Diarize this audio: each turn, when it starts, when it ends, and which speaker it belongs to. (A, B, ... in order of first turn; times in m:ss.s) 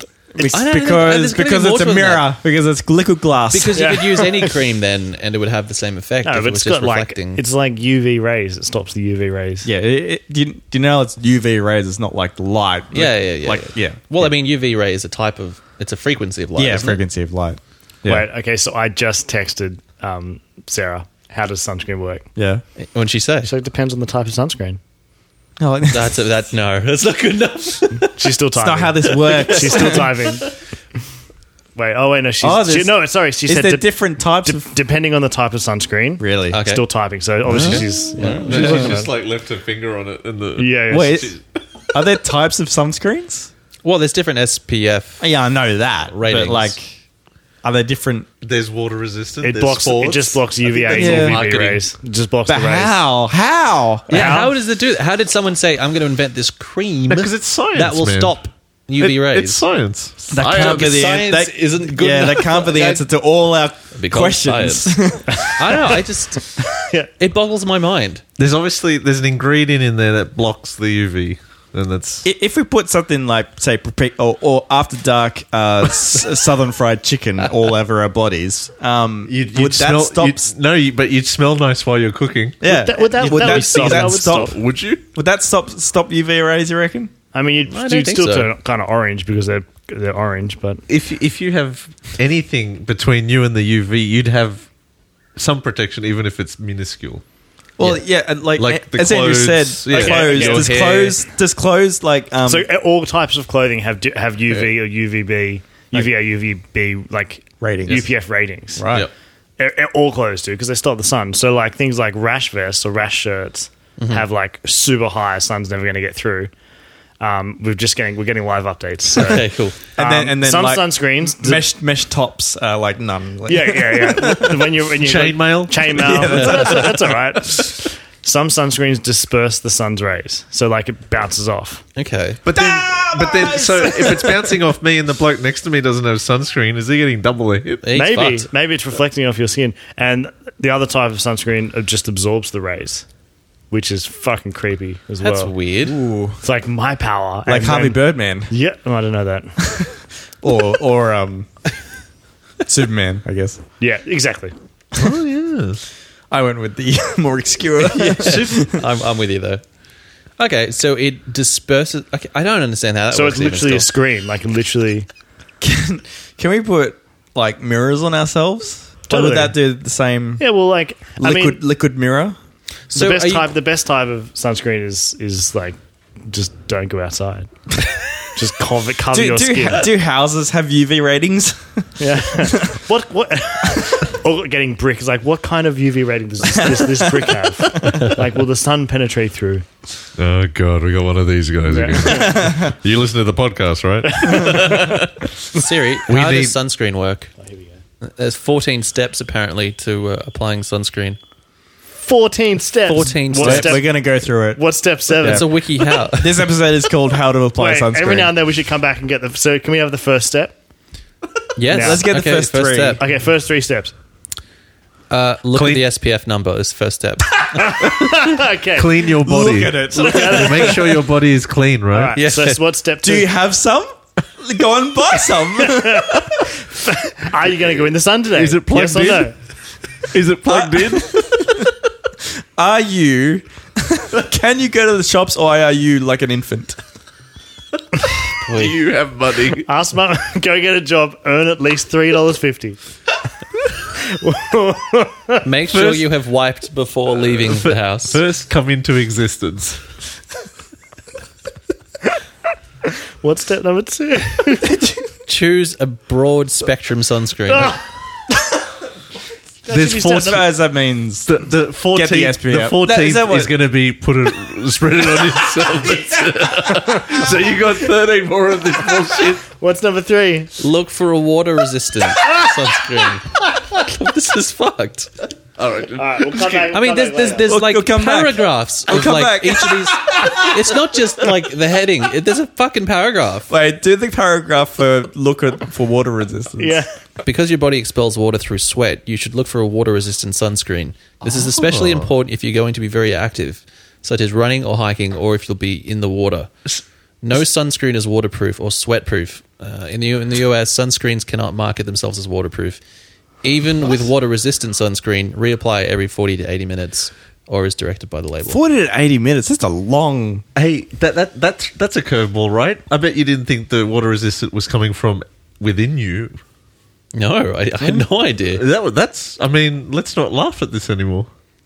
0:00.3-0:03.9 A
0:00.4-0:02.3 B
0:03.5-0:07.4 B
0:03.7-0:04.6 C
0:06.2-0:09.7 C
0:09.6-0:14.3 A
0:12.9-0:17.0 B
0:16.6-0:18.3 A
0:18.0-0:22.3 C
0:22.4-0:22.6 A
0:22.8-0:23.5 B
0:23.4-0:24.8 C
0:25.6-0:26.3 A
0:25.9-0:28.2 B
0:28.1-0:30.5 C
0:28.5-0:30.1 A
0:29.2-0:30.2 B
0:31.8-0:39.1 C
0:32.4-0:34.7 A
0:36.2-0:36.6 A
0:36.5-0:36.8 B
0:37.5-0:37.9 A
0:37.6-0:38.5 B
0:37.6-0:41.4 D
0:38.6-0:38.9 A
0:40.6-0:41.3 C
0:40.9-0:41.4 A
0:41.9-0:43.5 A
0:43.8-0:45.2 B
0:45.2-0:47.0 A
0:46.1-0:46.7 B
0:47.6-0:48.3 A
0:48.4-0:51.8 D
0:49.4-0:53.0 C
0:50.9-0:51.4 A
0:52.5-0:54.4 A
0:54.1-0:59.6 B
0:54.1-0:54.5 C
0:57.1-0:58.4 D
0:59.0-1:01.0 D
1:00.3-1:05.8 A
1:00.4-1:03.1 B
1:03.9-1:06.5 B
1:07.2-1:08.2 B
1:08.4-1:12.2 D
1:12.2-1:20.5 A
1:19.3-1:22.6 D
1:22.6-1:24.6 A
1:22.6-1:24.6 C
1:23.2-1:23.5 B
1:23.5-1:25.0 D
1:25.1-1:27.1 A
1:27.3-1:30.8 C
1:27.7-1:28.5 B
1:30.9-1:34.6 D
1:35.4-1:37.2 D
1:37.8-1:42.7 A
1:38.6-1:40.8 D
1:39.9-1:40.8 C
1:40.2-1:41.2 B
1:42.5-1:48.8 C
1:47.6-1:48.1 A
1:48.8-1:49.1 A
1:49.6-1:56.5 C
1:54.0-1:54.2 B
1:57.2-2:01.6 C
1:59.2-1:59.8 B
2:00.0-2:04.8 A
2:03.5-2:11.8 C
2:05.0-2:07.2 D
2:05.9-2:07.2 A
2:12.0-2:12.4 B
2:12.4-2:17.8 D
2:12.4-2:14.6 A
2:17.8-2:18.5 B
2:17.9-2:23.0 C
2:23.7-2:25.5 C
2:25.2-2:26.0 B
2:25.8-2:26.4 A
2:26.4-2:28.0 C
2:27.4-2:28.5 A
2:28.5-2:29.6 C
2:30.4-2:31.5 A
2:32.6-2:33.6 A
2:33.8-2:34.5 C
2:34.9-2:35.8 D
2:36.3-2:38.8 A
2:37.8-2:39.6 B
2:40.4-2:43.9 B
2:43.1-2:45.1 C
2:45.6-2:50.4 A
2:49.1-2:49.5 C
2:50.4-2:51.6 C
2:51.2-2:52.4 A
2:52.9-2:53.5 B
2:52.9-2:57.5 C
2:58.3-2:59.9 C
2:59.1-3:02.8 A
3:02.0-3:09.6 C
3:06.5-3:08.1 A
3:10.2-3:15.3 D
3:11.7-3:12.3 C
3:12.1-3:12.7 A
3:14.2-3:14.8 C
3:15.5-3:17.3 B
3:16.1-3:16.5 D
3:17.4-3:17.8 C
3:18.0-3:21.2 B
3:21.9-3:26.0 C
3:22.8-3:23.8 B
3:23.4-3:25.4 A
3:25.2-3:26.3 B
3:26.1-3:28.4 A
3:27.6-3:30.5 C
3:31.6-3:33.0 B
3:31.7-3:32.0 C
3:31.7-3:33.0 A
3:33.0-3:33.9 C
3:35.1-3:37.5 B
3:35.5-3:35.8 D
3:37.5-3:39.0 C
3:38.7-3:42.2 D
3:39.2-3:40.9 A
3:39.9-3:41.1 C
3:41.9-3:43.3 C
3:42.1-3:42.6 B
3:43.0-3:46.5 A
3:45.6-3:49.3 C
3:48.3-3:49.3 D
3:50.1-3:51.7 D
3:50.4-3:51.6 A
3:52.2-3:56.8 A
3:58.4-3:58.8 B
3:58.5-3:59.7 D
3:59.6-4:02.8 C
4:03.9-4:05.4 C
4:05.4-4:08.2 B
4:05.7-4:06.1 D
4:07.3-4:09.8 D
4:12.9-4:14.9 C
4:15.3-4:17.8 B
4:19.6-4:20.4 C
4:19.7-4:20.5 D
4:20.1-4:21.4 A
4:21.2-4:29.4 D
4:21.9-4:23.5 A
4:29.5-4:30.5 C
4:30.6-4:35.1 B
4:35.6-4:36.7 D
4:36.0-4:37.5 C
4:36.7-4:43.5 B
4:37.4-4:40.7 A
4:43.5-4:46.8 A
4:46.6-4:46.9 C
4:47.2-4:56.5 B
4:51.2-4:52.1 D
4:57.2-5:02.8 B
5:03.4-5:08.6 B
5:08.4-5:10.4 A
5:10.6-5:16.4 D
5:17.1-5:18.6 B
5:17.8-5:21.3 D